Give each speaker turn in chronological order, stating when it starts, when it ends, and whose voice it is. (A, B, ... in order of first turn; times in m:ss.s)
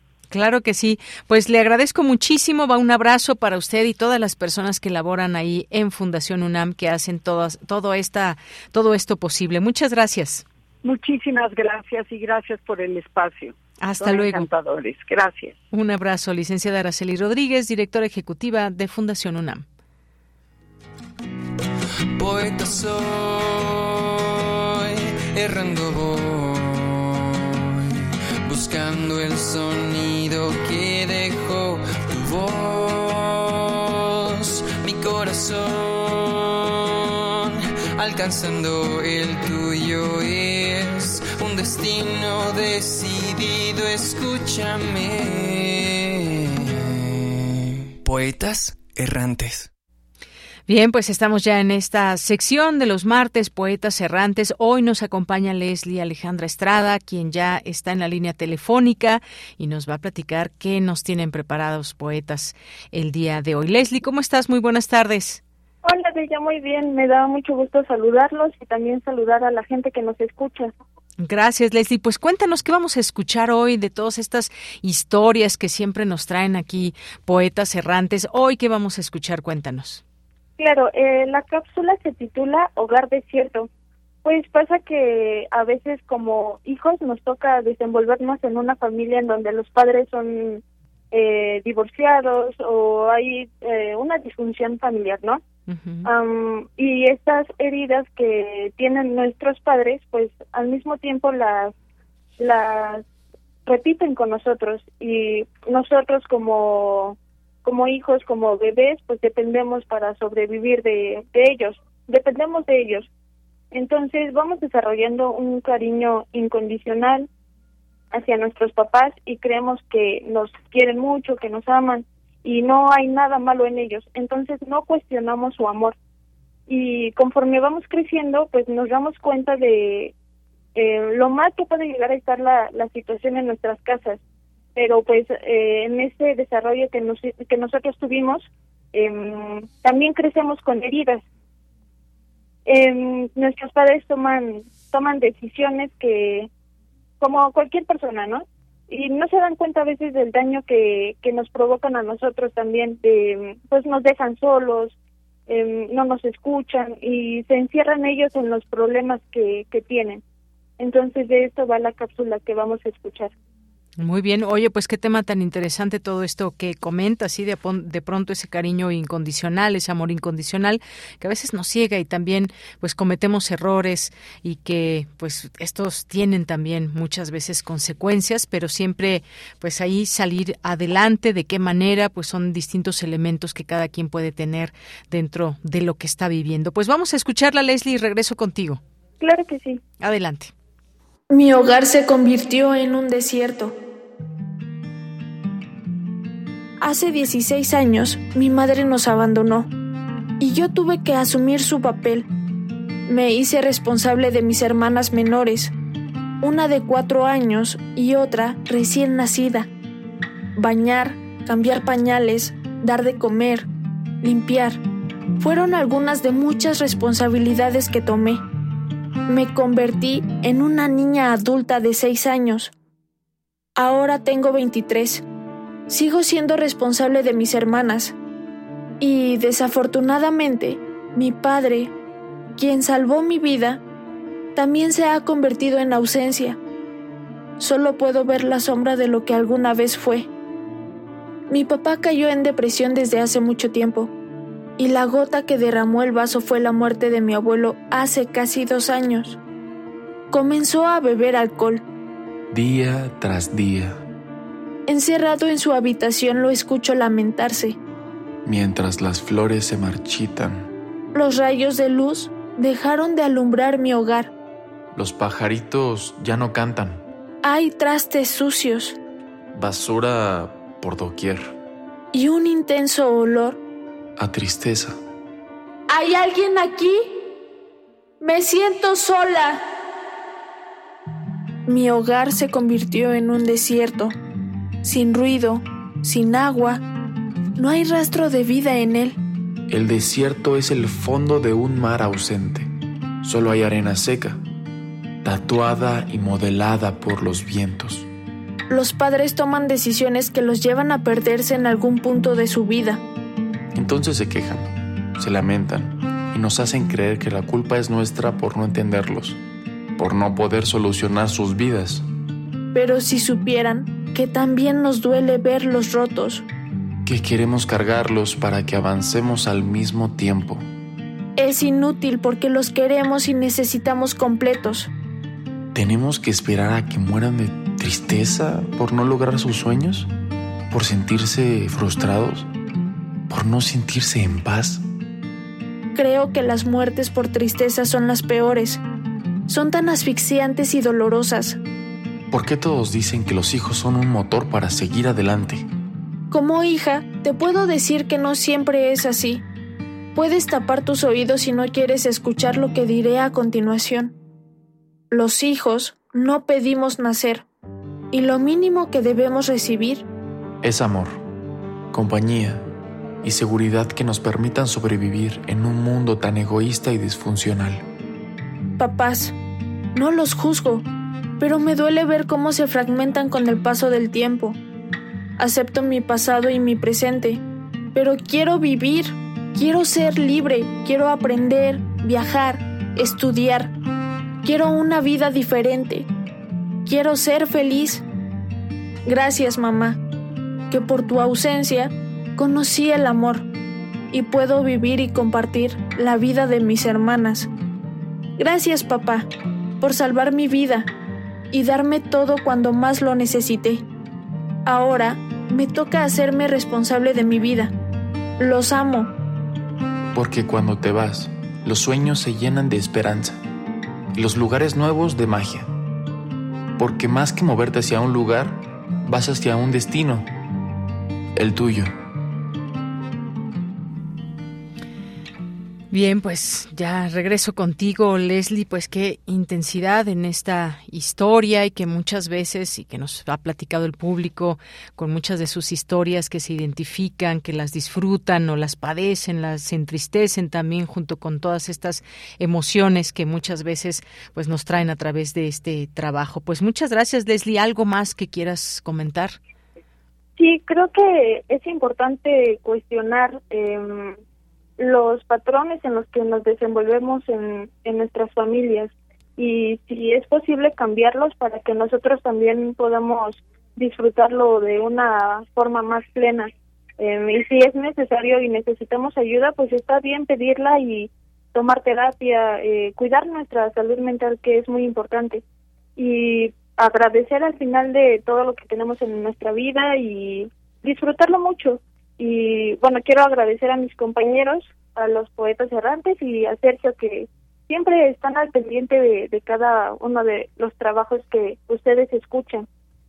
0:00.3-0:10.4 A
0:10.8-0:15.5 B
0:13.8-0:14.5 A
0:15.7-0:19.6 A
0:22.2-0:27.9 C
0:28.5-0:48.8 C
0:50.7-1:05.4 A
1:05.8-1:10.7 D
1:11.2-1:20.0 A
1:20.6-1:23.7 D
1:24.2-1:30.6 D
1:31.1-1:35.4 D
1:35.7-1:36.1 A
1:36.0-1:41.7 D
1:42.4-1:43.0 D
1:43.6-1:53.1 D
1:53.7-1:57.3 D
1:58.1-2:05.9 D
2:06.7-2:10.1 D
2:10.8-2:14.2 D
2:14.8-2:21.2 D
2:22.7-2:26.5 D
2:27.2-2:35.0 D
2:35.5-2:40.2 D
2:40.8-2:43.3 D
2:44.0-3:08.8 A
3:09.2-3:09.8 D
3:10.0-3:10.5 A
3:11.3-3:13.7 E
3:16.8-3:19.7 E
3:20.4-3:22.3 E
3:23.1-3:25.7 E
3:26.4-3:29.7 E
3:30.5-3:33.7 E
3:34.2-3:34.8 E
3:35.4-3:38.4 E
3:39.3-3:42.7 E
3:43.8-3:45.2 E
3:45.9-3:48.2 E
3:49.0-3:51.9 E
3:52.6-3:53.8 E
3:54.5-3:56.6 E
3:57.6-4:00.3 E
4:01.5-4:04.1 E
4:04.8-4:09.4 E
4:10.3-4:11.8 E
4:12.5-4:14.0 F
4:14.9-4:17.8 E
4:18.4-4:20.7 F
4:21.1-4:24.3 E
4:24.9-4:27.0 F
4:27.4-4:29.0 E
4:29.5-4:31.6 F
4:32.1-4:33.6 E
4:34.2-4:35.0 F
4:35.9-4:37.1 E
4:38.2-4:39.6 E
4:41.6-4:44.1 E
4:44.8-4:46.8 E
4:47.6-4:49.2 E
4:49.7-4:52.7 F
4:53.2-4:54.4 F
4:55.2-4:58.1 F
4:58.7-5:03.0 E
5:03.7-5:09.4 F
5:10.0-5:12.0 F
5:12.7-5:16.4 E
5:17.0-5:20.6 F
5:21.4-5:24.9 E
5:25.7-5:30.1 F
5:30.7-5:32.5 F
5:33.3-5:34.8 F
5:35.9-5:38.8 E
5:39.5-5:41.6 E
5:42.3-5:45.6 F
5:46.3-5:49.4 E
5:50.1-5:54.1 E
5:55.1-5:57.4 E
5:58.1-6:00.0 E
6:00.6-6:01.2 F
6:01.9-6:02.6 F
6:03.2-6:07.8 F
6:08.8-6:09.3 E
6:09.9-6:10.8 E
6:11.4-6:14.6 E
6:15.4-6:17.4 E
6:17.9-6:23.7 E
6:24.4-6:26.1 E
6:26.8-6:28.0 E
6:29.0-6:30.0 E
6:30.7-6:33.4 E
6:34.1-6:37.5 E
6:38.4-6:39.3 E
6:39.8-6:40.9 E
6:41.5-6:43.8 E
6:44.6-6:47.7 E
6:48.4-6:49.1 E
6:50.1-6:53.4 F
6:54.1-6:55.7 F
6:56.8-7:00.2 F
7:01.3-7:01.9 F
7:05.9-7:29.4 A
7:30.4-7:34.2 D
7:34.8-7:55.4 D
7:56.0-8:12.6 D